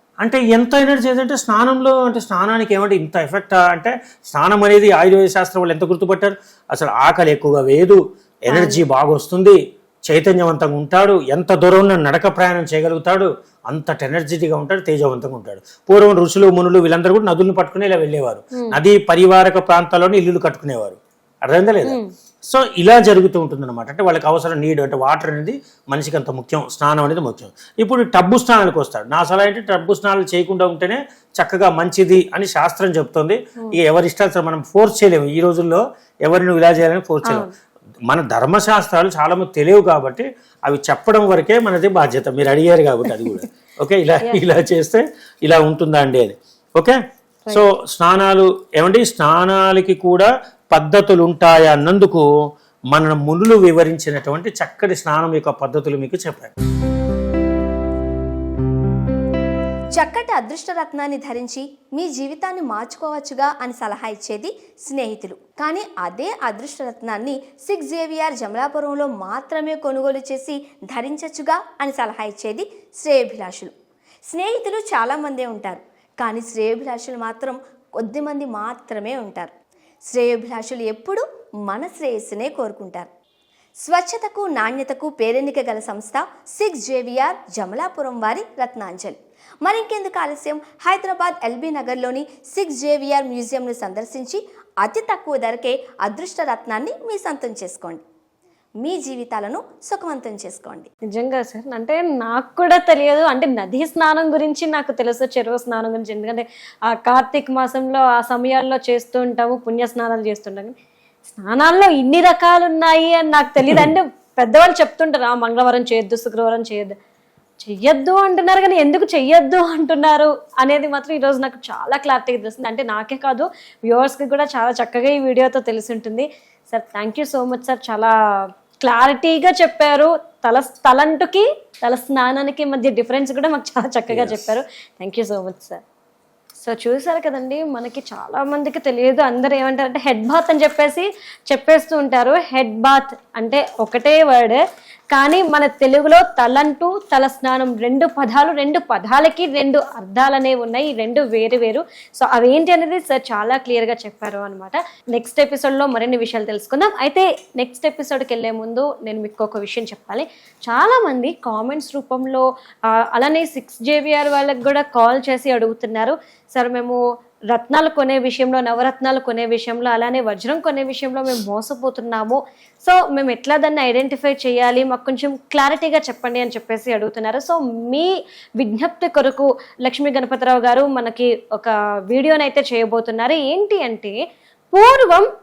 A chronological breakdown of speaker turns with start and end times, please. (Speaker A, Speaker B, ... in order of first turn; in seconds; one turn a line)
Speaker A: 0.2-37.5
Speaker B: 8.5-8.8
Speaker B: 21.8-22.1
Speaker B: 37.2-37.5
Speaker A: 38.1-47.0
Speaker B: 43.1-43.4
Speaker A: 47.5-52.2
Speaker A: 52.9-56.5
Speaker C: 60.0-73.7
Speaker C: 74.3-79.5
Speaker C: 80.1-83.1
Speaker C: 83.8-98.0
Speaker C: 98.8-100.9
Speaker B: 101.1-110.8
Speaker B: 111.3-117.0
Speaker B: 117.6-128.1
Speaker B: 128.8-135.8
Speaker A: 134.1-134.5
Speaker B: 136.6-144.6
Speaker B: 145.1-167.0
Speaker B: 167.5-184.1
Speaker B: 184.7-185.3